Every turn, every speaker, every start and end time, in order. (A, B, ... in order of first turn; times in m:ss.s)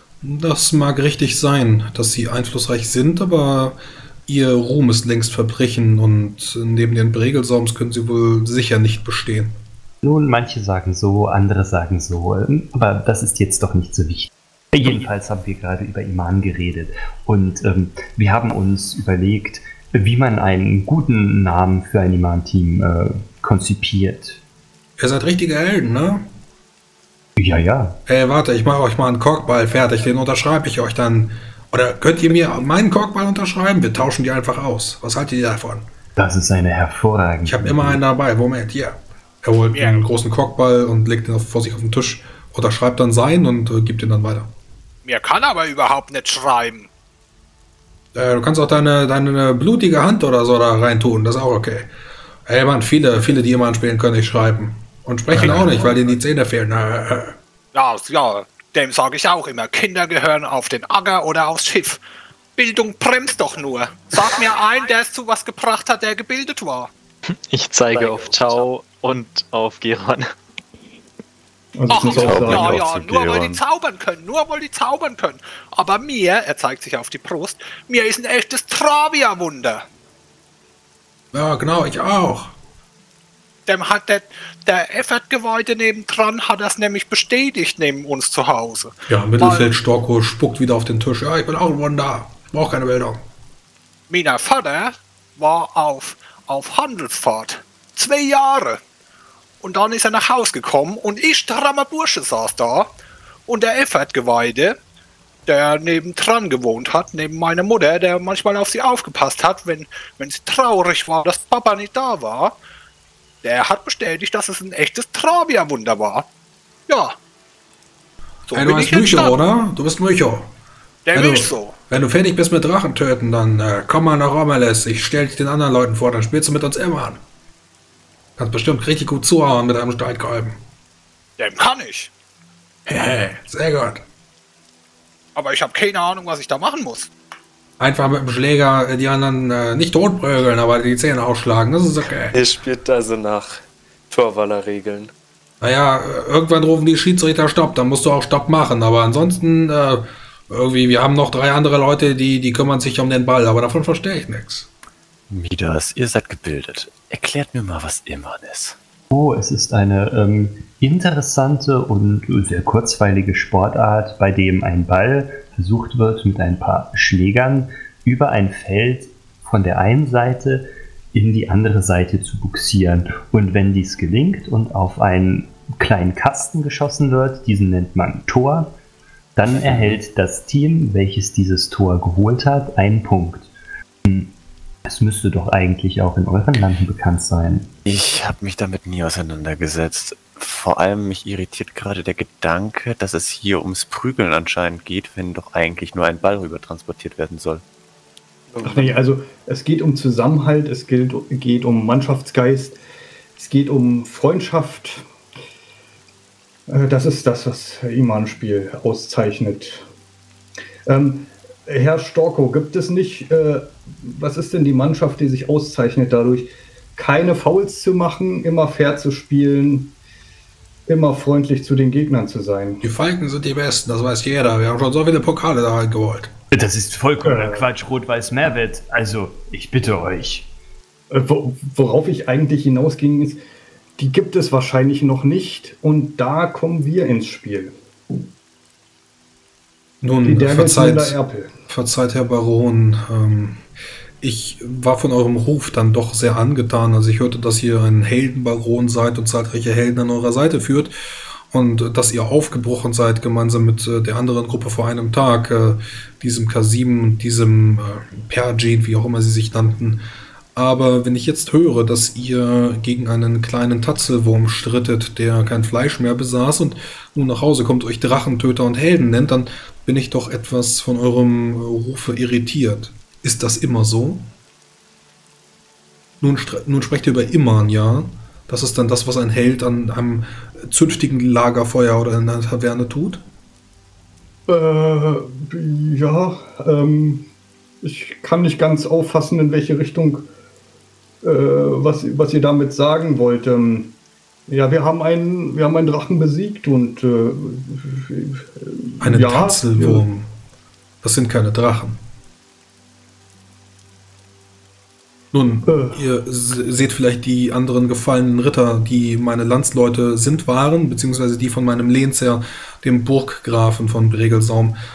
0:00.2-0:09.6 A
0:10.0-0:24.4 B
0:25.0-0:26.3 A
0:27.4-0:28.0 B
0:28.1-0:35.9 A
0:36.2-0:38.0 B
0:37.4-0:44.5 A
0:39.7-0:40.1 C
0:45.0-0:46.9 C
0:48.1-0:51.9 A
0:52.4-0:57.4 A
0:55.4-0:56.1 C
0:57.7-1:02.0 C
1:02.6-1:06.9 C
1:07.5-1:10.3 D
1:11.8-1:12.8 E
1:11.9-1:19.9 C
1:12.1-1:13.6 F
1:21.3-1:22.5 A
1:23.6-1:29.7 C
1:29.1-1:33.2 A
1:34.1-1:38.8 C
1:39.6-1:42.9 C
1:43.5-1:44.8 C
1:45.5-1:52.6 C
1:53.4-1:56.2 C
1:56.9-1:57.2 C
1:58.5-1:59.4 C
1:58.5-2:00.5 A
2:01.0-2:01.8 C
2:01.1-2:07.2 A
2:08.4-2:10.6 A
2:11.4-2:12.1 C
2:12.9-2:14.0 A
2:15.3-2:17.1 C
2:17.8-2:22.4 A
2:22.3-2:25.1 G
2:25.6-2:34.7 A
2:35.3-2:38.8 F
2:39.1-2:58.8 B
2:59.4-3:03.5 B
2:59.5-3:00.0 F
3:04.0-3:04.3 B
3:04.9-3:07.7 B
3:07.8-3:17.6 F
3:18.5-3:19.0 G
3:18.6-3:22.8 E
3:23.4-3:25.0 E
3:26.7-3:29.9 E
3:30.9-3:39.9 E
3:40.9-3:42.8 E
3:42.8-3:46.3 A
3:46.5-3:50.5 B
3:47.2-3:47.6 E
3:51.1-3:53.4 E
3:54.0-3:58.2 E
4:00.0-4:01.2 A
4:00.2-4:01.5 E
4:01.7-4:03.6 A
4:04.2-4:10.9 A
4:11.5-4:20.0 A
4:20.6-4:34.3 A
4:36.2-4:43.2 A
4:44.5-4:47.3 E
4:47.8-4:50.3 E
4:51.2-4:54.0 E
4:54.5-5:00.0 E
4:59.0-5:00.3 A
5:01.0-5:02.0 A
5:05.3-5:14.8 A
5:05.6-5:06.0 E